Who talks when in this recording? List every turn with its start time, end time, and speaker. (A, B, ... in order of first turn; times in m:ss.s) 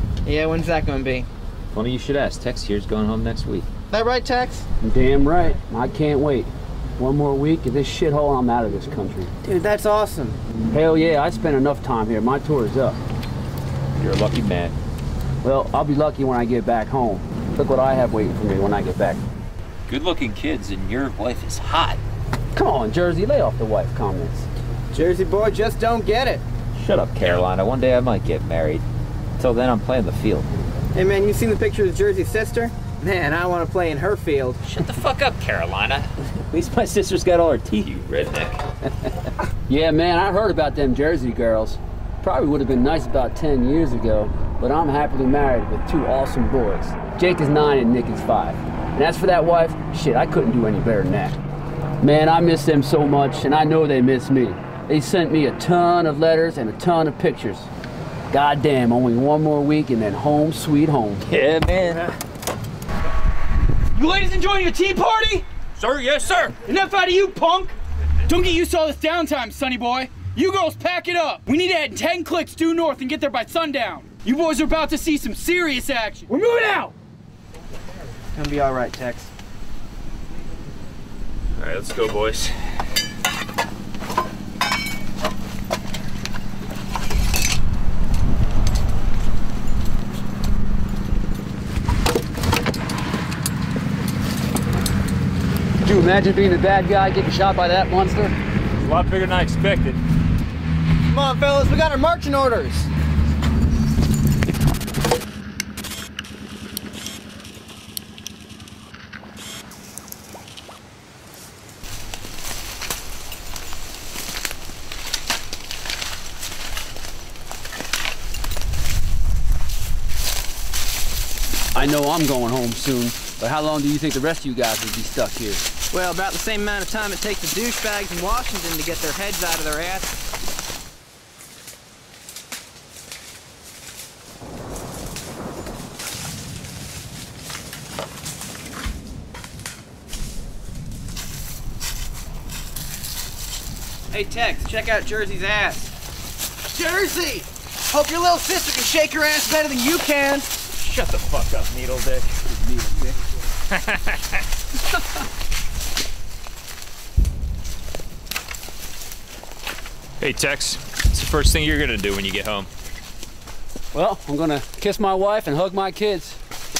0:00.2-0:01.3 A
0:01.7-0:03.7 B
0:03.9-0:04.6 A
0:04.8-0:09.3 C
0:09.4-0:10.4 A
0:10.7-0:13.0 C
0:14.0-0:14.8 B
0:15.4-0:19.2 C
0:19.9-0:22.0 B
0:22.5-0:24.5 C
0:24.9-0:26.4 A
0:26.7-0:28.8 B
0:29.4-0:30.5 B
0:30.9-0:34.6 A
0:34.6-0:38.6 B
0:39.7-0:51.4 C
0:52.0-0:57.7 C
0:58.3-1:01.3 C
1:01.2-1:02.1 B
1:03.9-1:05.4 D
1:05.8-1:06.6 B
1:06.6-1:07.7 D
1:08.2-1:16.9 D
1:18.4-1:19.3 A
1:21.6-1:22.6 B
1:35.8-1:38.4 C
1:38.8-1:40.0 B
1:41.1-1:42.9 A
2:01.7-2:05.6 C
2:05.9-2:10.1 A
2:24.1-2:25.9 A
2:26.7-2:30.5 A
2:30.7-2:32.4 B
2:32.5-2:33.1 C
2:33.7-2:34.4 B
2:40.2-2:42.7 B
2:43.9-2:46.4 C